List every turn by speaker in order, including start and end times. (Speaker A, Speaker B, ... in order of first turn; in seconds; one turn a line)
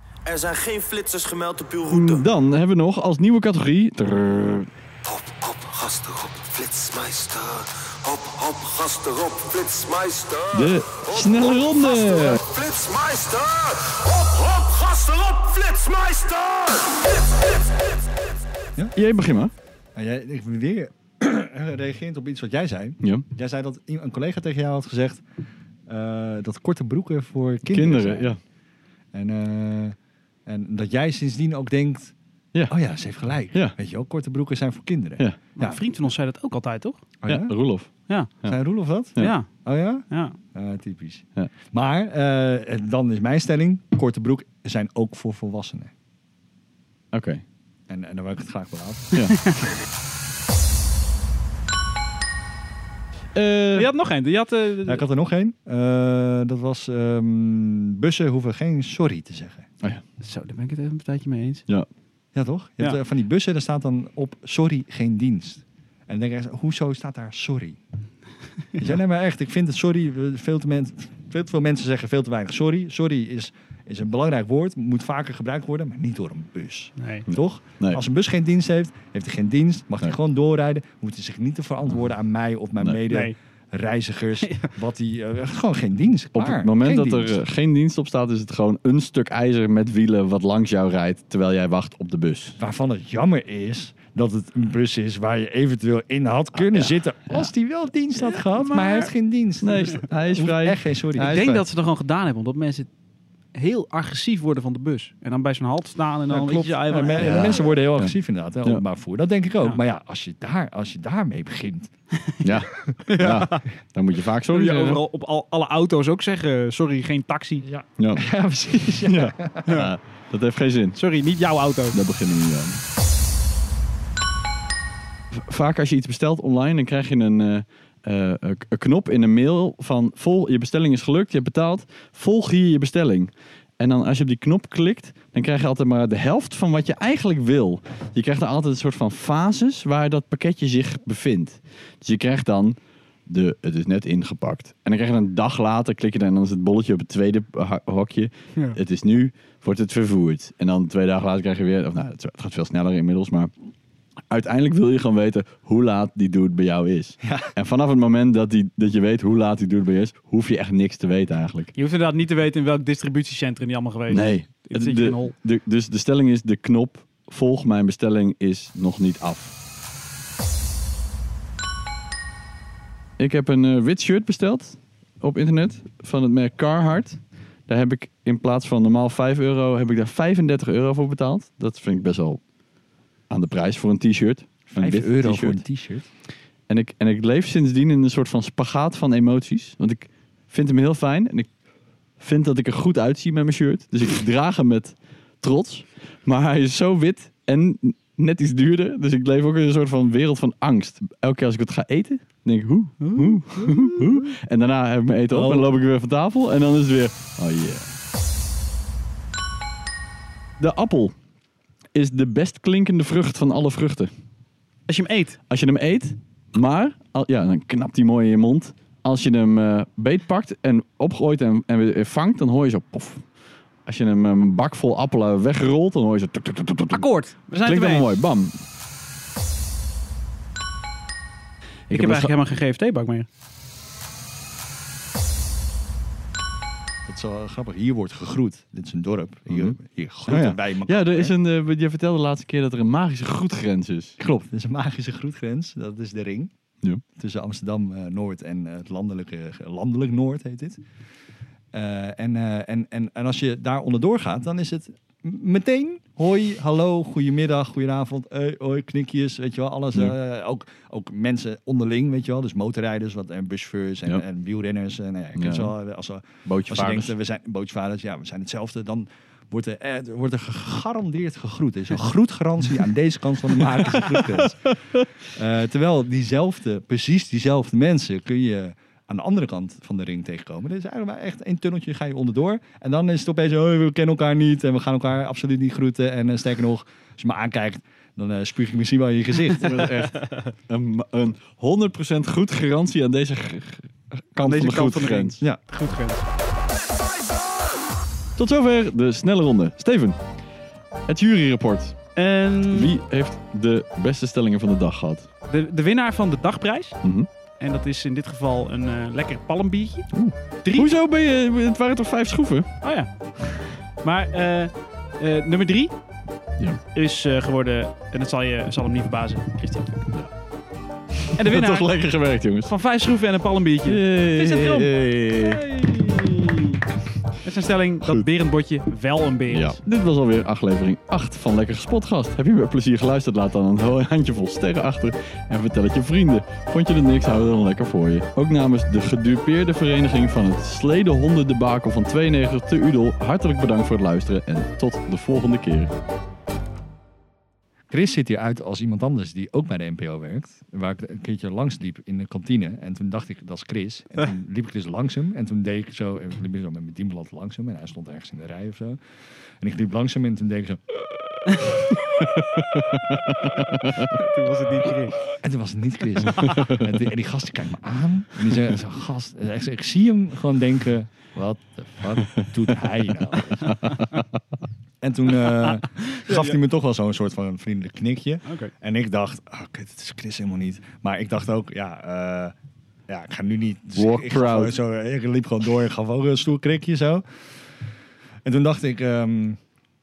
Speaker A: 0.3-2.3
Speaker B: 1.9-4.7
Speaker A: 5.0-18.0
Speaker B: 10.5-12.4
Speaker B: 18.9-19.5
Speaker C: 19.9-25.2
Speaker C: 25.9-28.4
Speaker B: 27.7-28.4
Speaker C: 29.1-32.1
Speaker C: 32.7-35.8
Speaker D: 35.6-37.1
Speaker C: 37.2-37.6
Speaker B: 37.3-37.9
Speaker C: 38.5-45.9
Speaker D: 39.2-40.4
Speaker B: 47.1-47.4
Speaker C: 47.9-49.1
Speaker B: 53.4-53.9
Speaker D: 53.8-55.0
Speaker C: 54.9-59.7
Speaker D: 60.2-61.6
Speaker C: 62.4-67.8
Speaker C: 68.8-87.4
Speaker D: 77.0-77.3
Speaker B: 77.3-78.0
Speaker D: 83.1-83.4
Speaker D: 84.4-84.7
Speaker B: 86.3-92.6
Speaker C: 92.6-101.4
Speaker B: 96.5-97.5
Speaker D: 98.2-99.1
Speaker B: 99.6-101.7
Speaker D: 101.2-102.9
Speaker D: 103.5-107.7
Speaker C: 106.3-111.9
Speaker B: 107.2-108.8
Speaker B: 112.4-115.0
Speaker D: 113.1-113.7
Speaker D: 114.5-117.7
Speaker C: 117.6-119.7
Speaker B: 118.0-118.3
Speaker B: 119.0-121.0
Speaker D: 119.7-119.9
Speaker D: 121.0-122.0
Speaker B: 121.9-122.8
Speaker B: 125.3-153.5
Speaker B: 154.3-161.7
Speaker D: 161.8-165.3
Speaker B: 164.1-169.6
Speaker B: 173.2-182.4
Speaker B: 183.3-185.6
Speaker C: 184.8-186.1
Speaker B: 186.7-191.5
Speaker B: 192.2-207.9
Speaker D: 203.0-204.3
Speaker D: 205.3-205.7
Speaker B: 210.6-211.2
Speaker B: 211.9-214.1
Speaker D: 214.9-215.4
Speaker B: 215.5-223.2
Speaker B: 223.8-227.1
Speaker D: 226.9-228.1
Speaker B: 227.6-228.5
Speaker B: 231.9-232.3
Speaker D: 231.9-233.3
Speaker C: 237.1-241.3
Speaker B: 239.5-244.2
Speaker C: 244.2-246.5
Speaker C: 247.2-250.8
Speaker C: 251.7-290.0
Speaker B: 265.4-265.7
Speaker B: 266.4-267.1
Speaker B: 289.6-295.4
Speaker D: 294.4-296.3
Speaker B: 298.4-300.2
Speaker B: 301.1-302.0
Speaker D: 302.2-303.0
Speaker B: 302.7-305.3
Speaker D: 305.5-307.0
Speaker B: 307.0-307.3
Speaker D: 307.6-310.1
Speaker B: 310.1-312.7
Speaker D: 310.6-310.9
Speaker D: 312.8-313.1
Speaker D: 314.0-315.9
Speaker D: 316.9-320.1
Speaker B: 321.3-322.7
Speaker D: 321.3-321.9
Speaker D: 322.7-326.8
Speaker B: 323.9-325.7
Speaker D: 327.4-329.8
Speaker B: 329.5-345.9
Speaker C: 347.9-359.0
Speaker C: 359.6-360.8
Speaker B: 362.1-364.2
Speaker D: 363.9-365.3
Speaker C: 365.3-373.9
Speaker B: 366.5-366.8
Speaker C: 375.0-382.6
Speaker D: 375.4-376.6
Speaker D: 378.5-378.7
Speaker C: 383.1-387.4
Speaker B: 383.9-384.8
Speaker C: 388.4-389.6